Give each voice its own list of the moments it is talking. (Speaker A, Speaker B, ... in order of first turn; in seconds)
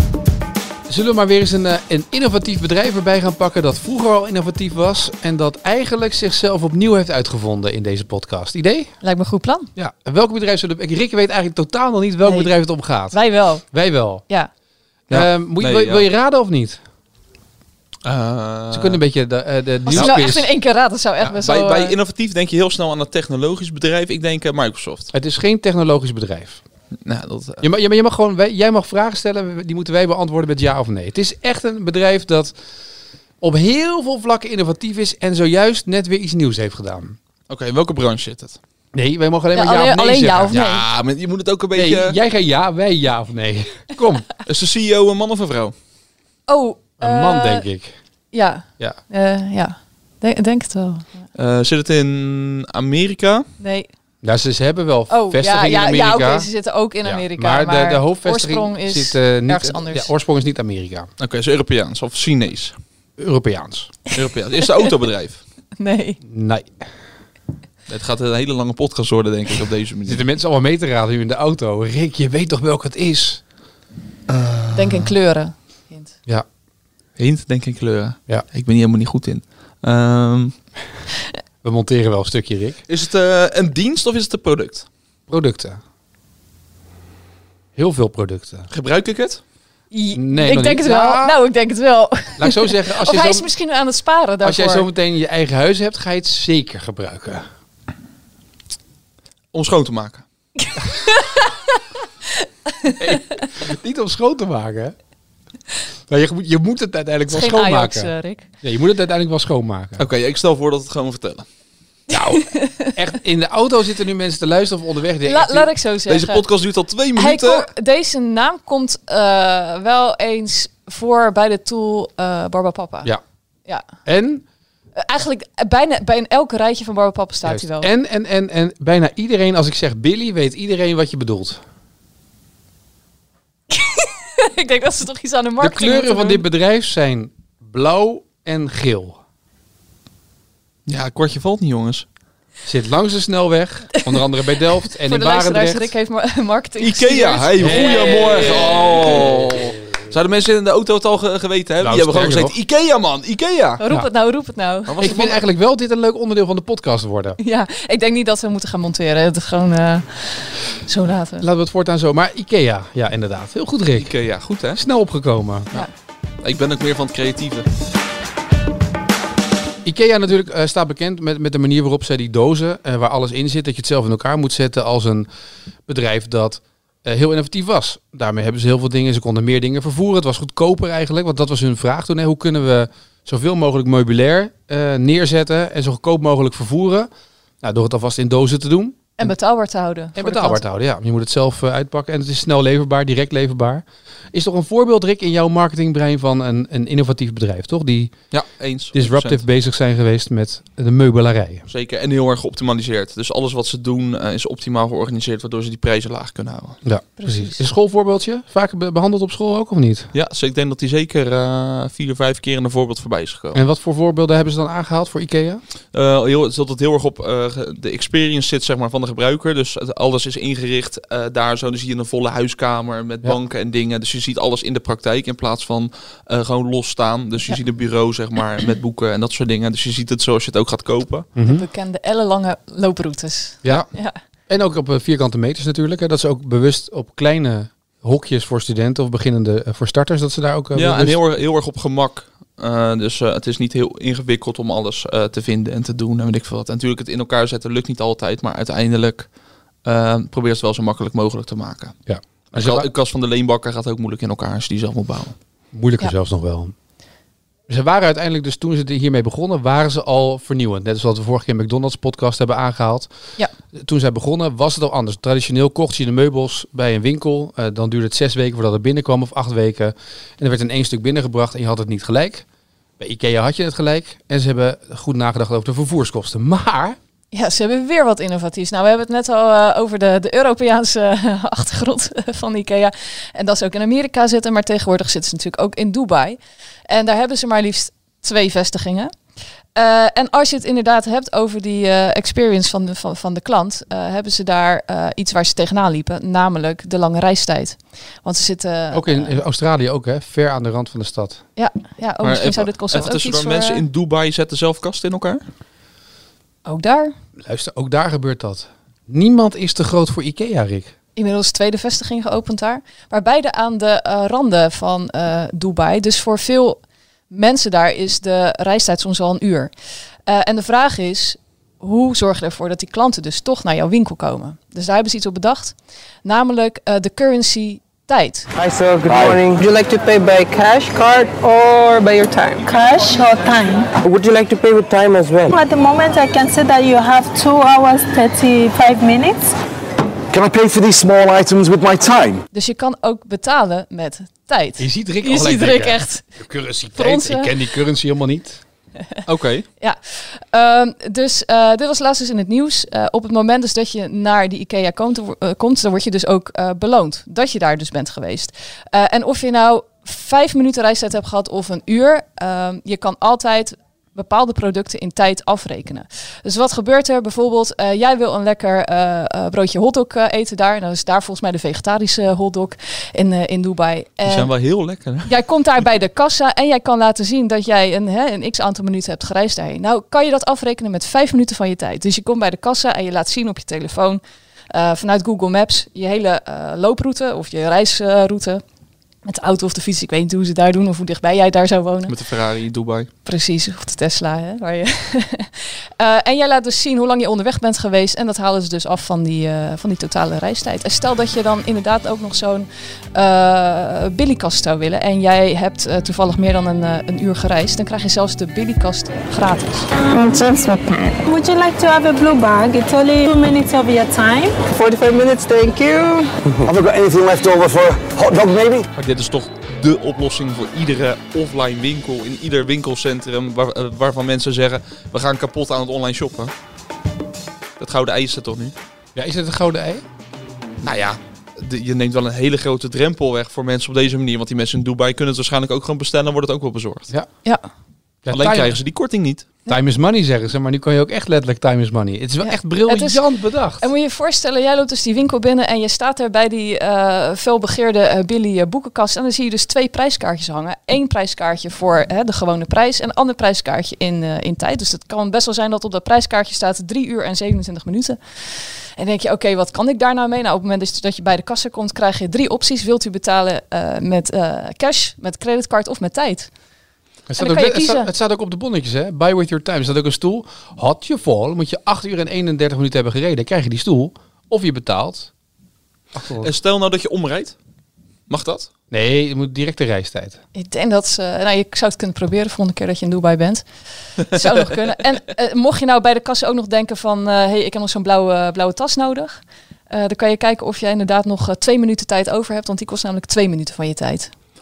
Speaker A: 0.9-8.9, 9.8-13.2, 13.7-14.2, 15.1-16.8, 18.7-20.5, 25.1-26.6, 27.6-32.5, 33.4-37.2, 38.9-40.6, 41.7-44.3, 47.0-47.9, 54.2-56.5, 57.0-61.1, 63.2-64.0, 66.2-66.8, 70.0-73.4, 81.6-82.8, 85.3-85.8, 87.8-88.7, 90.1-91.3, 92.4-93.5, 94.4-97.4, 103.0-104.9, 106.1-110.0, 112.1-115.7, 124.0-124.4, 127.4-131.6, 135.6-139.2, 142.7-145.9, 147.6-149.5, 151.8-152.5, 155.0-157.4, 161.4-164.1, 164.8-165.7, 169.8-175.3, 175.9-187.1, 187.6-189.3, 190.2-198.1, 198.9-201.7, 206.8-210.1, 213.5-215.6, 231.3-231.6, 233.6-233.9, 234.5-241.2, 252.1-252.9, 255.7-256.7, 257.7-263.1, 263.7-272.4, 273.0-276.9, 298.9-301.4, 307.4-310.9, 344.8-348.6, 429.1-430.0, 438.2-438.8, 439.7-443.9, 467.3-475.3, 476.1-476.5, 478.9-480.4
Speaker B: 9.0-9.7, 12.2-12.5, 13.1-13.6, 19.9-21.9, 39.5-40.8, 46.5-47.6, 48.3-51.1, 53.6-53.9, 55.1-60.1, 65.8-66.2, 74.7-76.1, 89.9-94.9, 100.6-101.8, 102.4-103.1, 107.3-108.5, 112.4-112.9, 115.2-116.4, 117.2-123.1, 125.0-127.9, 133.7-136.4, 144.0-144.2, 144.8-148.6, 153.8-155.2, 157.4-161.4, 189.2-190.6, 207.2-207.6, 231.4-234.2, 277.3-286.4, 286.9-289.1, 289.7-299.4, 301.6-303.8, 306.6-307.1, 311.1-319.7, 320.2-328.5, 342.5-346.2, 346.9-347.5, 349.8-374.5, 375.2-388.6, 389.2-392.1, 393.2-409.9, 442.4-443.2, 443.8-466.5, 467.4-468.1, 480.5-483.6, 484.2-494.3
Speaker C: 15.1-16.1, 18.0-19.0, 19.9-20.2, 21.2-25.1, 27.1-27.6, 37.5-38.6, 40.5-42.1, 44.4-45.7, 51.3-53.4, 61.2-62.8, 64.1-65.4, 67.9-70.2, 74.3-75.1, 77.2-80.5, 82.9-84.9, 88.7-89.4, 99.5-100.2, 110.0-111.5, 116.1-117.7, 140.9-142.0, 146.8-153.8, 154.8-155.4, 163.9-164.8, 166.4-167.7, 198.3-199.4, 201.7-206.8, 210.1-213.6, 215.9-231.3, 240.7-249.3, 249.8-251.9, 252.5-255.3, 302.2-305.4, 349.2-349.6, 374.2-375.4, 392.1-393.1, 419.0-426.5, 427.8-428.7, 430.8-437.1, 438.3-439.5, 476.4-477.6, 478.3-478.7
Speaker D: 328.6-332.6, 334.1-335.4, 410.4-411.1, 414.7-416.3
Speaker E: 328.6-329.6, 334.0-334.9, 340.3-342.4, 416.6-418.9
Speaker F: 332.6-334.0, 335.5-339.5, 411.2-414.7, 415.8-416.2